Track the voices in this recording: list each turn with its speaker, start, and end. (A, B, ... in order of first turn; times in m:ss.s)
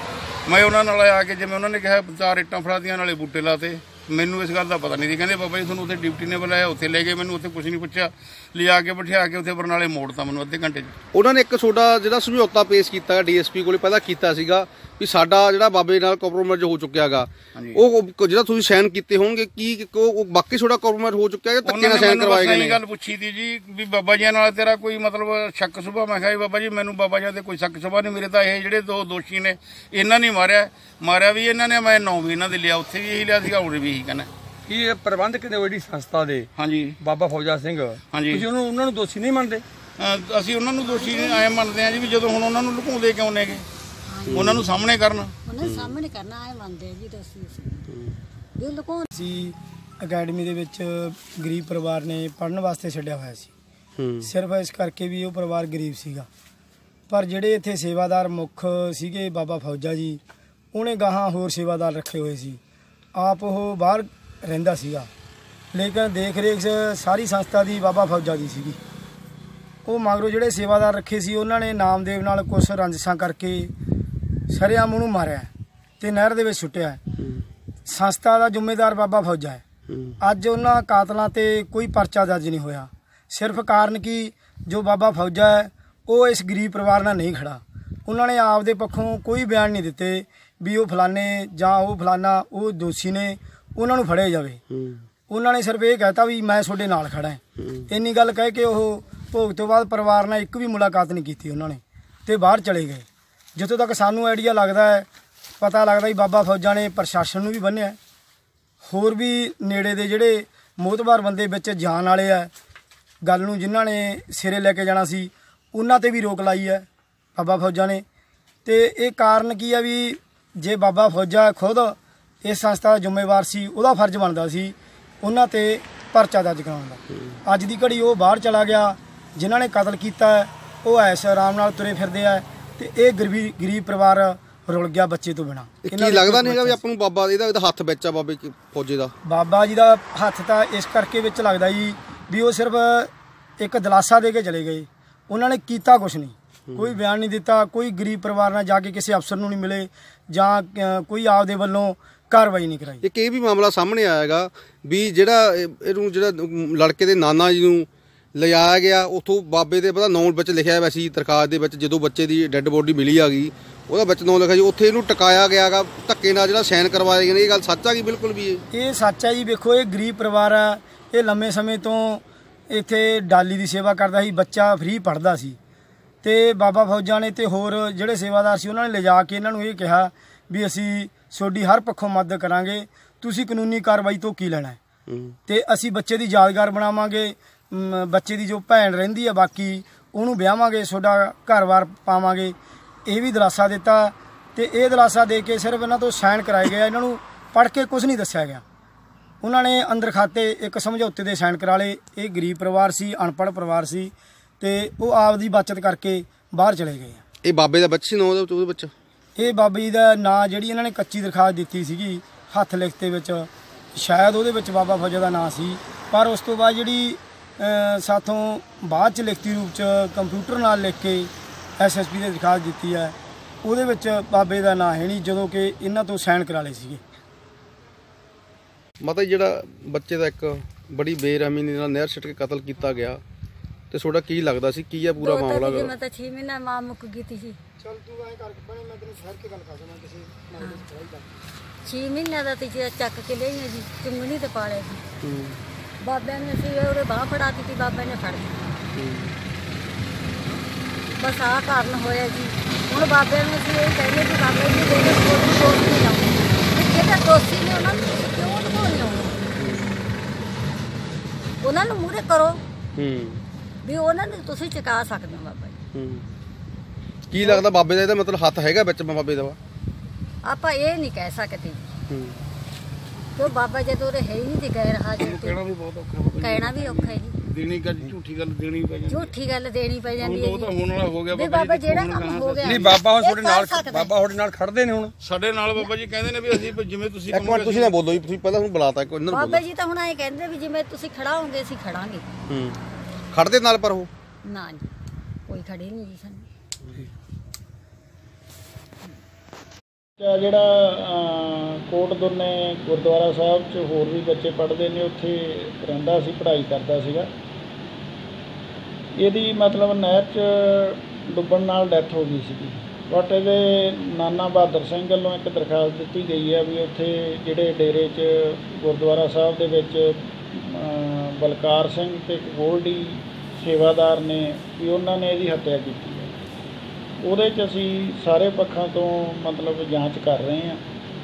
0:00.4-0:10.9 A
0:11.1-0:22.8 B
0:17.5-0:17.8 A
0:21.6-0:34.3 A
0:34.6-0:36.5 C
0:36.6-0:37.0 A
0:37.0-0:39.6 C
0:38.1-0:38.4 A
0:40.0-0:43.6 A
0:40.8-0:41.5 D
0:44.1-0:44.8 D
0:44.3-0:44.6 B
0:44.3-0:45.3 A
0:45.4-0:47.9 D
0:45.6-0:46.0 B
0:47.9-0:48.2 B
0:48.6-0:49.1 D
0:49.1-0:53.5 E
0:54.0-0:54.3 B
0:54.2-0:56.3 E
0:57.1-1:00.2 E
1:00.7-1:02.6 E
1:03.1-1:05.1 E
1:05.7-1:08.8 E
1:09.8-1:13.7 E
1:14.5-1:15.5 E
1:16.0-1:17.0 E
1:17.2-1:17.4 B
1:17.9-1:19.6 E
1:19.9-1:20.2 B
1:20.2-1:34.6 E
1:34.7-1:35.0 B
1:35.3-1:45.1 E
1:37.6-1:37.9 B
1:45.6-1:48.0 E
1:48.8-1:52.5 E
1:53.2-1:56.8 E
1:57.4-1:58.0 E
1:58.6-2:16.8 E
2:15.8-2:19.1 B
2:19.2-2:33.0 E
2:26.7-2:27.0 B
2:33.0-2:48.6 B
2:48.7-2:55.6 E
2:56.2-3:04.8 E
3:05.1-3:05.3 B
3:05.5-3:18.6 E
3:19.4-3:27.2 E
3:27.4-3:28.9 B
3:29.4-3:47.0 E
3:49.0-3:53.2 B
3:53.9-3:55.9 B
3:55.2-3:57.6 D
3:57.8-4:01.3 E
4:01.8-4:05.0 D
4:05.2-4:05.6 B
4:06.0-4:08.7 D
4:08.9-4:09.4 B
4:11.1-4:19.4 D
4:19.6-4:20.0 B
4:21.6-4:22.6 D
4:23.0-4:23.4 B
4:23.8-4:25.8 D
4:25.9-4:26.3 B
4:27.3-4:29.6 B
4:27.4-4:27.6 D
4:30.4-4:31.9 D
4:32.1-4:32.4 B
4:33.4-4:35.6 D
4:35.2-4:39.3 A
4:36.4-4:37.4 D
4:39.1-4:40.8 D
4:40.2-4:42.8 A
4:41.3-4:44.2 D
4:42.6-4:45.1 C
4:45.2-4:48.0 A
4:47.3-4:49.6 B
4:49.3-4:52.3 D
4:52.5-4:52.8 B
4:53.3-4:54.1 B
4:54.4-4:54.9 D
4:55.5-4:56.5 D
5:00.2-5:07.3 F
5:09.2-5:26.3 F
5:27.2-5:30.8 F